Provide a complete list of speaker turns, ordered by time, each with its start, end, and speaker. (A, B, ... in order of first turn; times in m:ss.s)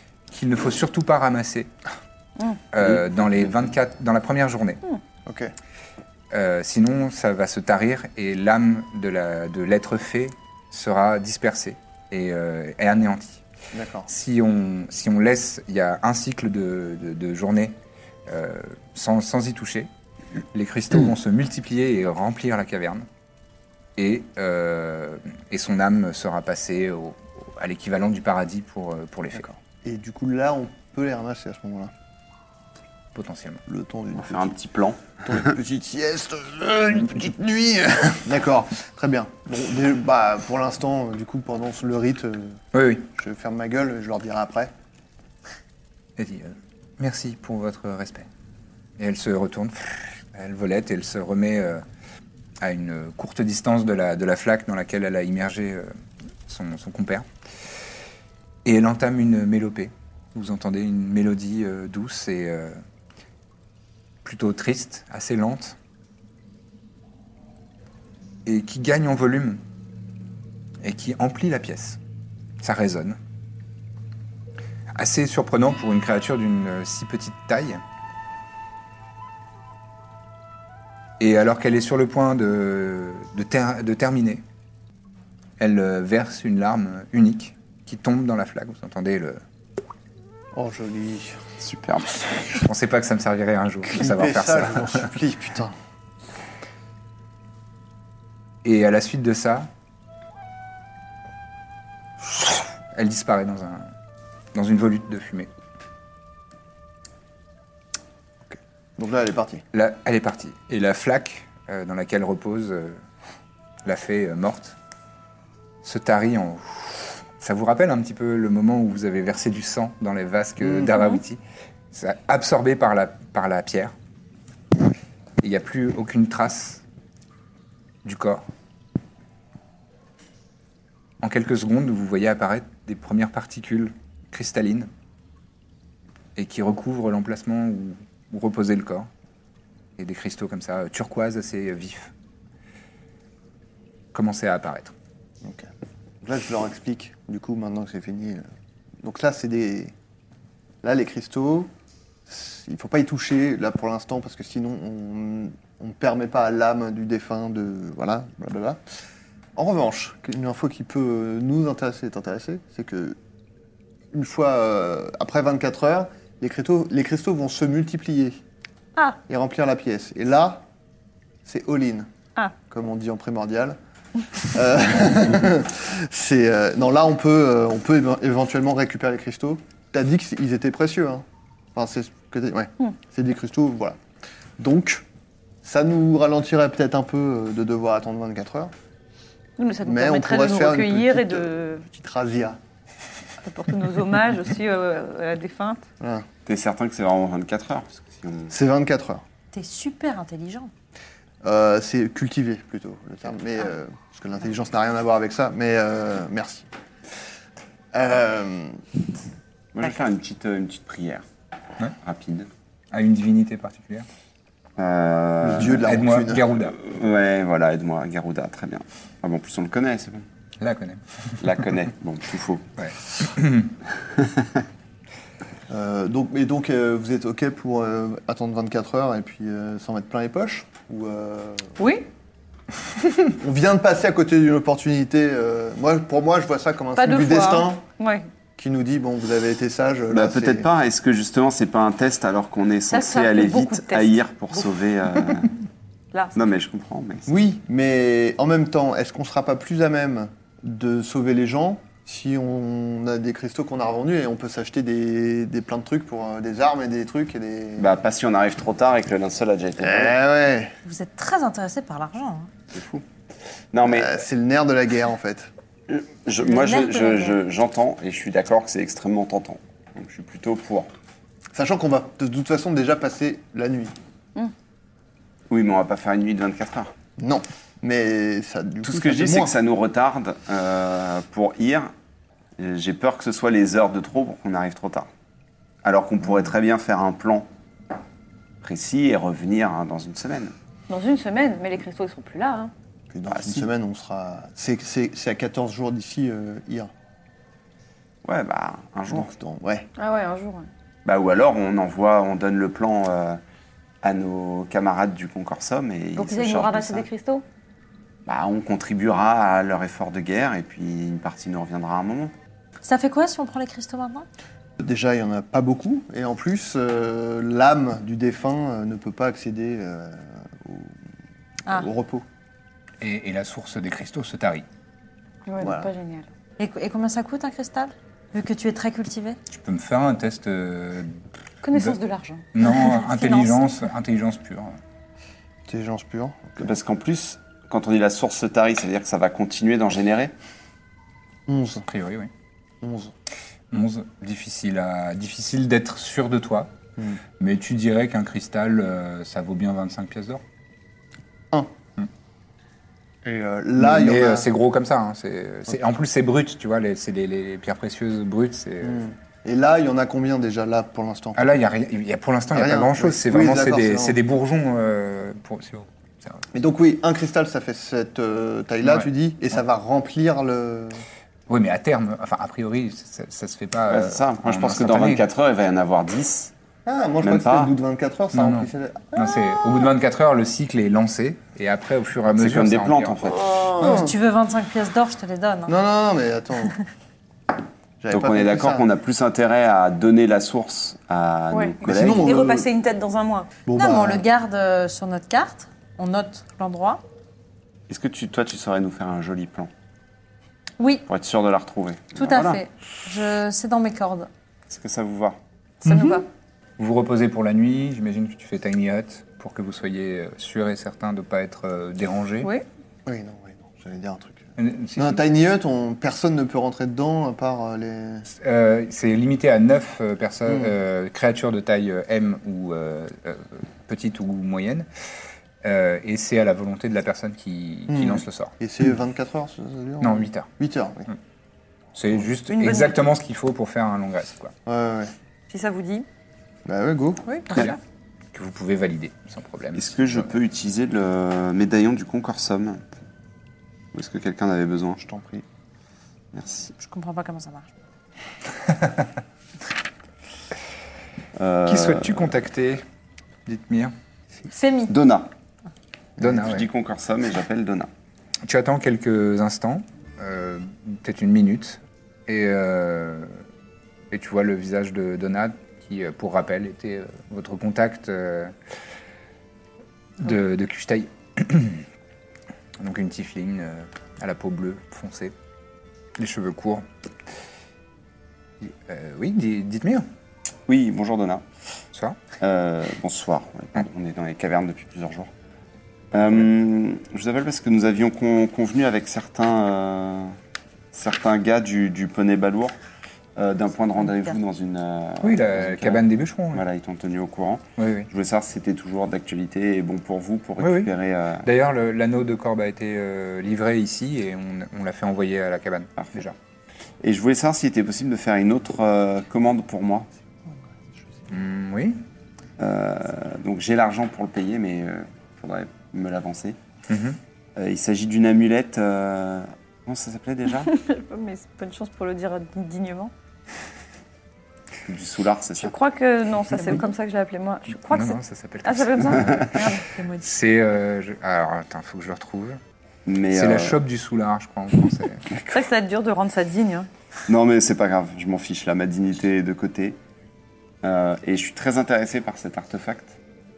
0:00.3-0:01.7 A
0:02.7-0:04.8 A
0:02.8-0:03.5 B
0:05.2-0:05.5 C
0:06.3-0:13.4 A
0:13.7-0:14.1 C
0:14.1-0:17.8 A
0:18.3-0:19.9 A
0:20.5-0:23.1 A
0:24.0-0:29.4 A
0:29.3-0:31.9 C
0:33.1-0:33.6 A
0:33.7-0:34.6 C
0:34.2-0:35.2 B
0:35.2-0:42.6 C
0:42.7-0:43.1 A
0:43.1-0:44.7 C
0:46.2-0:48.3 A
0:49.0-0:51.8 A
0:52.6-0:55.9 A
0:56.5-0:57.3 A
0:58.6-1:02.8 A
1:04.2-1:05.8 A
1:08.4-1:09.6 A
1:10.8-1:12.0 A
1:12.6-1:13.2 A
1:14.9-1:17.8 A
1:21.2-1:24.4 A
1:25.6-1:29.4 A
1:30.5-1:31.4 C
1:31.6-1:32.3 B
1:32.5-1:35.1 A
1:33.8-1:35.8 C
1:38.6-1:39.7 A
1:42.9-1:43.9 A
1:44.5-1:45.5 A
1:48.4-1:49.6 C
1:49.7-1:53.0 A
1:53.8-1:54.8 A
1:55.8-2:01.4 A
2:01.9-2:03.9 A
2:05.4-2:06.8 A
2:08.0-2:08.4 A
2:11.2-2:14.9 A
2:16.4-2:19.1 A
2:20.0-2:22.1 A
2:24.1-2:24.9 A
2:25.4-2:25.7 C
2:26.2-2:28.4 C
2:29.0-2:29.9 C
2:30.8-2:31.7 C
2:32.3-2:38.8 C
2:39.6-2:43.2 C
2:44.1-2:48.4 C
2:49.2-2:50.6 C
2:51.4-2:52.1 C
2:52.6-2:53.8 C
2:54.4-3:04.0 C
3:04.6-3:05.0 C
3:05.6-3:08.7 C
3:09.6-3:11.8 D
3:09.8-3:12.6 C
3:13.4-3:15.8 D
3:16.0-3:16.3 C
3:16.4-3:18.5 B
3:18.5-3:19.2 C
3:19.5-3:20.7 E
3:21.4-3:26.7 C
3:27.9-3:28.8 C
3:29.7-3:31.2 B
3:32.0-3:32.5 B
3:32.9-3:34.1 A
3:34.8-3:35.9 B
3:35.4-3:36.4 C
3:35.6-3:36.8 A
3:36.7-3:40.2 B
3:40.6-3:41.0 A
3:41.4-3:42.7 B
3:42.8-3:43.7 A
3:45.7-3:51.8 C
3:51.8-3:52.1 D
3:53.3-3:57.8 C
3:57.0-3:58.3 D
3:58.6-4:00.7 C
4:00.1-4:05.5 B
4:02.9-4:04.3 D
4:06.1-4:06.4 D
4:06.3-4:07.3 B
4:07.3-4:17.9 C
4:17.8-4:20.2 B
4:19.8-4:20.7 C
4:20.8-4:22.5 E
4:22.7-4:23.0 B
4:23.7-4:24.1 B
4:23.8-4:25.5 C
4:25.9-4:30.9 B
4:26.4-4:27.4 E
4:31.5-4:34.0 C
4:35.5-4:36.9 B
4:37.2-4:39.5 C
4:38.8-4:41.9 B
4:42.6-4:45.1 B
4:45.8-4:47.5 B
4:48.6-4:50.5 B
4:50.9-4:52.7 D
4:53.1-4:56.9 C
4:53.3-4:53.6 B
4:58.2-4:59.3 B
4:59.1-4:59.9 C
5:00.0-5:00.7 D
5:01.0-5:03.4 B
5:04.0-5:07.1 B
5:06.2-5:07.4 D
5:08.2-5:12.3 B
5:12.8-5:14.3 E
5:14.8-5:21.0 C
5:21.7-5:22.2 C
5:23.0-5:24.6 A
5:25.5-5:26.3 D
5:25.6-5:25.9 C
5:26.6-5:29.4 E
5:29.5-5:31.2 A
5:31.6-5:32.4 D
5:32.5-5:34.8 A
5:32.6-5:33.7 E
5:35.7-5:36.7 C
5:36.6-5:40.3 B
5:41.5-5:41.8 C
5:41.8-5:42.3 A
5:42.8-5:43.1 C
5:43.7-5:46.7 A
5:47.4-5:50.4 A
5:53.2-5:54.5 C
5:53.8-5:59.0 A
5:58.8-6:01.5 C
6:01.4-6:06.5 A
6:02.5-6:04.2 C
6:06.5-6:11.0 C
6:08.8-6:09.1 A
6:11.5-6:15.2 A
6:13.9-6:16.5 B
6:16.8-6:19.5 C
6:17.2-6:17.7 B
6:18.3-6:23.4 A
6:22.4-6:24.0 B
6:23.4-6:24.1 C
6:23.8-6:25.8 E
6:25.7-6:26.7 C
6:28.0-6:28.8 C
6:28.1-6:32.4 B
6:31.5-6:33.5 D
6:31.8-6:32.7 C
6:33.6-6:34.3 C
6:33.7-6:37.0 E
6:37.9-6:39.7 B
6:40.8-6:41.0 E
6:41.1-6:42.6 B
6:42.1-6:44.3 E
6:44.7-6:45.4 B
6:45.8-6:46.3 D
6:45.8-6:46.2 E
6:46.8-6:52.5 A
6:53.0-6:58.3 C
6:54.6-6:55.2 A
6:58.3-7:04.9 A
7:00.5-7:00.7 C
7:05.6-7:08.5 A
7:07.9-7:11.1 C
7:10.0-7:10.5 A
7:11.9-7:14.5 A
7:12.5-7:13.0 D
7:14.6-7:15.1 C
7:15.5-7:16.0 D
7:16.6-7:17.2 C
7:17.3-7:17.7 E
7:18.3-7:20.3 A
7:19.7-7:22.8 B
7:23.9-7:25.0 B
7:25.0-7:25.4 C
7:26.3-7:26.7 B
7:26.8-7:27.7 E
7:28.7-7:29.1 A
7:31.4-7:32.4 B
7:31.7-7:32.8 A
7:33.4-7:33.9 A
7:34.5-7:34.9 E
7:34.9-7:35.3 B
7:36.2-7:36.7 A
7:36.2-7:37.9 B
7:38.4-7:43.4 A
7:44.1-7:48.5 A
7:50.2-7:51.8 A
7:52.8-7:55.3 A
7:56.2-7:56.8 A
7:58.6-8:00.1 A
8:00.7-8:01.4 B
8:01.9-8:02.2 A
8:02.4-8:05.3 B
8:06.1-8:10.4 B
8:10.9-8:12.7 B
8:13.4-8:21.5 B
8:15.2-8:16.6 A
8:17.8-8:18.1 A
8:20.6-8:20.9 A
8:21.4-8:26.4 A
8:27.0-8:30.1 B
8:31.3-8:32.0 A
8:32.6-8:36.6 B
8:36.9-8:37.2 A
8:37.6-8:40.7 B
8:40.7-8:43.1 D
8:44.8-8:45.8 B
8:45.6-8:49.8 D
8:47.7-8:52.6 A
8:49.1-8:49.5 B
8:49.8-8:50.3 E
8:53.0-8:53.8 B
8:53.3-8:55.3 A
8:55.4-8:56.9 D
8:57.3-9:00.0 B
9:00.8-9:03.2 B